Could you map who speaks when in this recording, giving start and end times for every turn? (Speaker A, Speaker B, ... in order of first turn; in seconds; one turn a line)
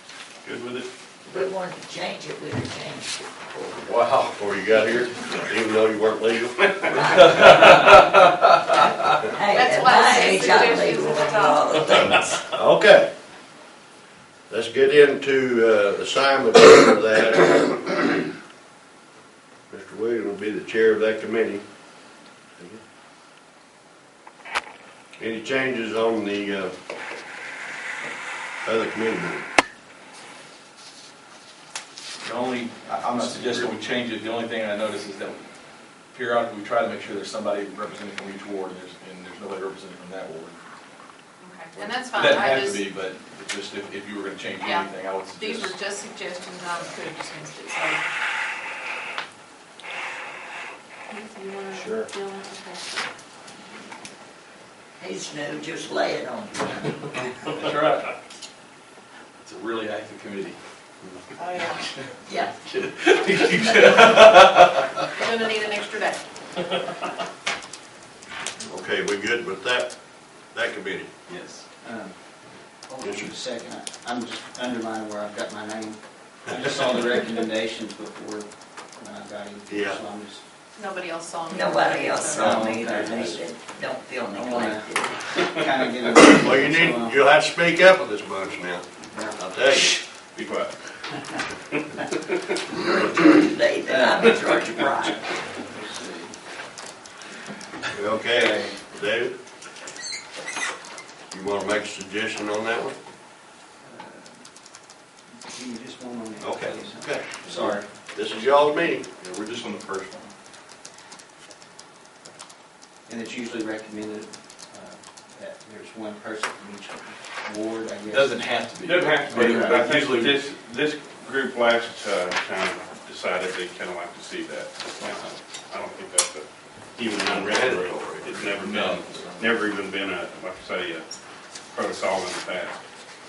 Speaker A: 0.4-0.9
Speaker B: 1.3-3.1
Speaker C: 3.5-4.3
Speaker D: 4.3-7.3
Speaker B: 7.0-7.2
Speaker C: 7.1-9.2
Speaker B: 9.3-12.1
Speaker E: 9.4-12.1
Speaker D: 11.9-13.1
Speaker D: 14.5-18.1
Speaker D: 19.7-21.6
Speaker D: 25.2-26.7
Speaker D: 28.6-29.5
Speaker C: 32.2-35.4
Speaker C: 36.1-40.6
Speaker E: 41.4-42.8
Speaker C: 41.7-45.8
Speaker E: 44.6-48.0
Speaker C: 46.7-47.0
Speaker E: 51.1-52.8
Speaker C: 51.7-52.1
Speaker B: 55.0-56.8
Speaker C: 57.5-58.1
Speaker C: 59.4-60.6
Speaker E: 61.4-61.8
Speaker C: 61.6-65.3
Speaker B: 62.3-62.5
Speaker E: 65.2-66.2
Speaker D: 68.7-69.9
Speaker D: 70.5-71.1
Speaker C: 71.3-71.6
Speaker F: 71.8-72.1
Speaker F: 72.9-80.4
Speaker D: 73.0-73.3
Speaker D: 79.7-80.0
Speaker E: 80.8-82.6
Speaker B: 81.5-85.2
Speaker F: 82.4-83.4
Speaker C: 82.5-83.3
Speaker F: 84.3-87.2
Speaker D: 86.1-90.0
Speaker F: 89.1-89.4
Speaker A: 90.3-90.7
Speaker A: 92.0-92.4
Speaker B: 92.8-95.2
Speaker F: 93.9-95.0
Speaker F: 95.6-96.3
Speaker D: 97.9-99.3
Speaker F: 98.3-98.8
Speaker D: 101.3-103.0
Speaker F: 103.8-104.4
Speaker F: 105.4-107.9
Speaker D: 106.4-109.1
Speaker C: 109.2-110.3
Speaker F: 113.1-118.5
Speaker C: 118.1-120.4
Speaker A: 118.8-126.5
Speaker F: 119.0-119.9
Speaker A: 127.0-131.1
Speaker D: 127.2-128.6
Speaker C: 128.6-129.6
Speaker A: 131.7-132.8